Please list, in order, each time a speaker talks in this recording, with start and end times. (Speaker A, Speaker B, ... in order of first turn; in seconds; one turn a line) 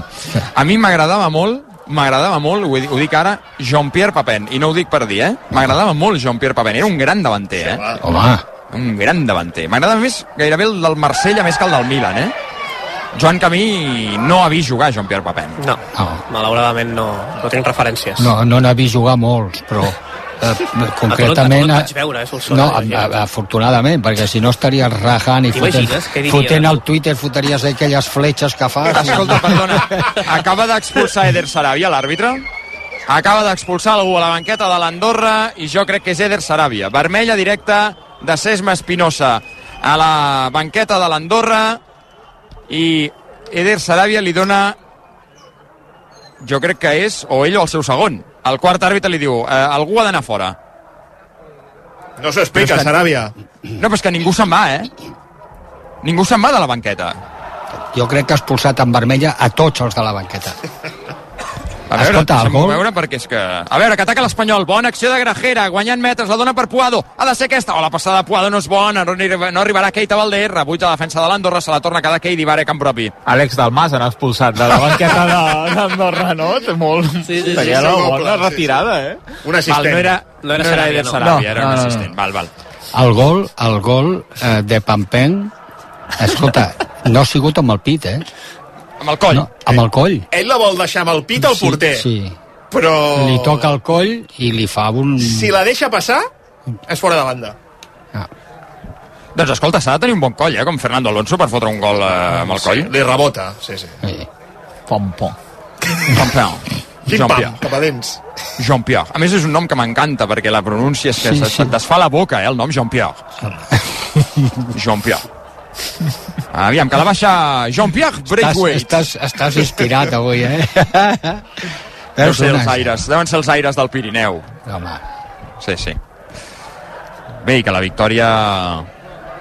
Speaker A: 0.5-7.9
Speaker B: 7.5-8.0
Speaker C: 8.0-8.4
Speaker A: 8.7-12.3
Speaker A: 13.1-15.6
Speaker D: 15.6-18.3
Speaker C: 15.9-16.2
Speaker C: 18.2-21.9
Speaker D: 21.1-23.1
Speaker C: 22.5-29.8
Speaker D: 25.6-26.8
Speaker A: 28.9-32.5
Speaker A: 33.1-41.8
Speaker A: 42.7-44.8
Speaker A: 46.4-50.5
Speaker B: 52.2-53.3
Speaker A: 52.5-52.9
Speaker A: 53.8-54.9
Speaker A: 56.0-57.2
Speaker C: 57.9-60.6
Speaker A: 61.9-73.1
Speaker C: 61.9-62.8
Speaker E: 73.3-79.2
Speaker B: 77.3-78.8
Speaker B: 79.4-80.2
Speaker A: 79.7-82.5
Speaker D: 80.4-81.5
Speaker E: 81.2-82.1
Speaker C: 82.9-85.5
Speaker C: 86.2-88.2
Speaker A: 89.0-89.5
Speaker C: 89.3-90.3
Speaker B: 90.3-92.0
Speaker C: 91.4-92.4
Speaker B: 92.7-93.7
Speaker C: 93.1-95.5
Speaker B: 95.2-96.3
Speaker B: 96.9-97.5
Speaker A: 99.3-102.9
Speaker B: 102.5-104.0
Speaker C: 104.0-104.3
Speaker E: 104.9-105.3
Speaker A: 106.1-107.6
Speaker B: 107.1-108.2
Speaker A: 108.6-113.3
Speaker C: 111.2-111.7
Speaker C: 113.5-113.8
Speaker C: 114.4-114.7
Speaker A: 114.7-115.2
Speaker A: 116.5-119.0
Speaker C: 118.4-123.0
Speaker A: 122.2-124.5
Speaker C: 124.7-125.0
Speaker A: 125.6-126.0
Speaker A: 127.4-128.9